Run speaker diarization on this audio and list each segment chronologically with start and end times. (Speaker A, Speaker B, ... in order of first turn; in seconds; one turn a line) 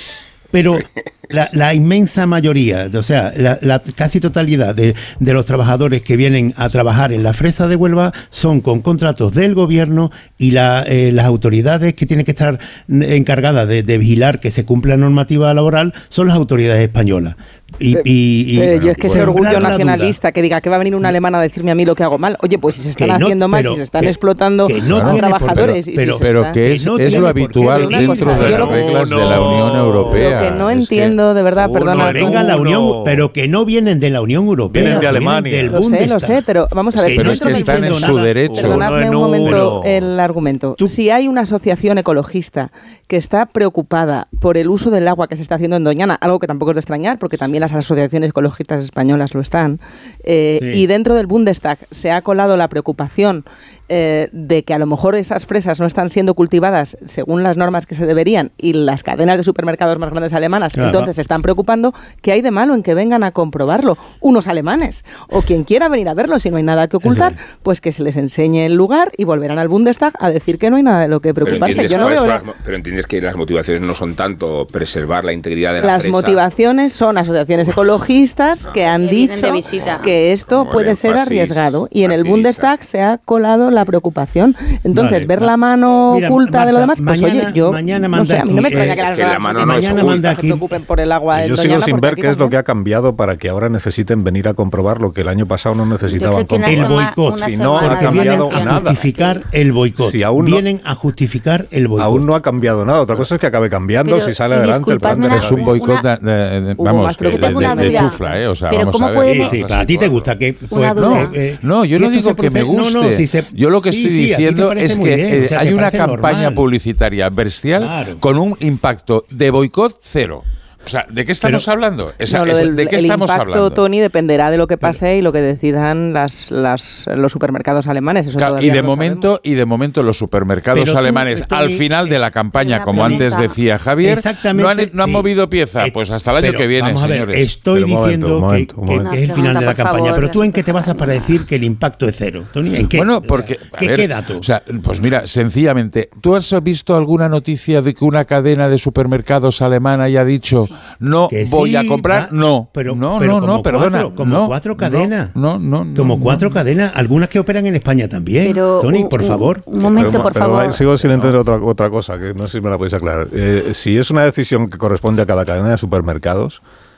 Speaker A: 0.5-20.2
Speaker B: 18.6-29.5
Speaker C: 18.8-19.8
Speaker A: 23.0-28.8
Speaker C: 24.9-25.7
Speaker C: 26.2-31.1
Speaker D: 28.3-30.5
Speaker B: 30.1-32.5
Speaker D: 31.6-33.3
Speaker A: 32.0-38.3
Speaker D: 34.7-35.8
Speaker B: 35.7-37.9
Speaker C: 37.1-38.9
Speaker D: 38.5-40.1
Speaker B: 38.5-72.4
Speaker A: 50.6-50.9
Speaker A: 60.8-61.1
Speaker A: 67.0-67.3
Speaker E: 71.4-76.4
Speaker F: 71.5-71.9
Speaker B: 75.8-92.5
Speaker F: 79.0-80.0
Speaker E: 80.4-82.8
Speaker A: 84.9-85.5
Speaker A: 86.1-90.7
Speaker E: 88.9-90.4
Speaker D: 91.3-99.0
Speaker F: 96.1-99.3
Speaker A: 96.7-102.3
Speaker D: 100.0-100.7
Speaker D: 102.0-105.8
Speaker F: 104.0-106.0
Speaker C: 105.0-110.3
Speaker B: 106.8-108.2
Speaker F: 107.3-109.6
Speaker A: 109.2-116.6
Speaker F: 110.7-111.3
Speaker C: 110.9-123.8
Speaker A: 117.8-118.2
Speaker B: 122.3-129.3
Speaker C: 128.4-137.5
Speaker A: 130.7-131.9
Speaker F: 132.6-133.6
Speaker A: 132.9-133.2
Speaker A: 134.0-144.5
Speaker D: 137.7-139.1
Speaker F: 139.0-141.3
Speaker C: 142.9-156.6
Speaker A: 151.3-155.3
Speaker A: 155.9-159.7
Speaker F: 158.4-160.8
Speaker D: 159.8-166.6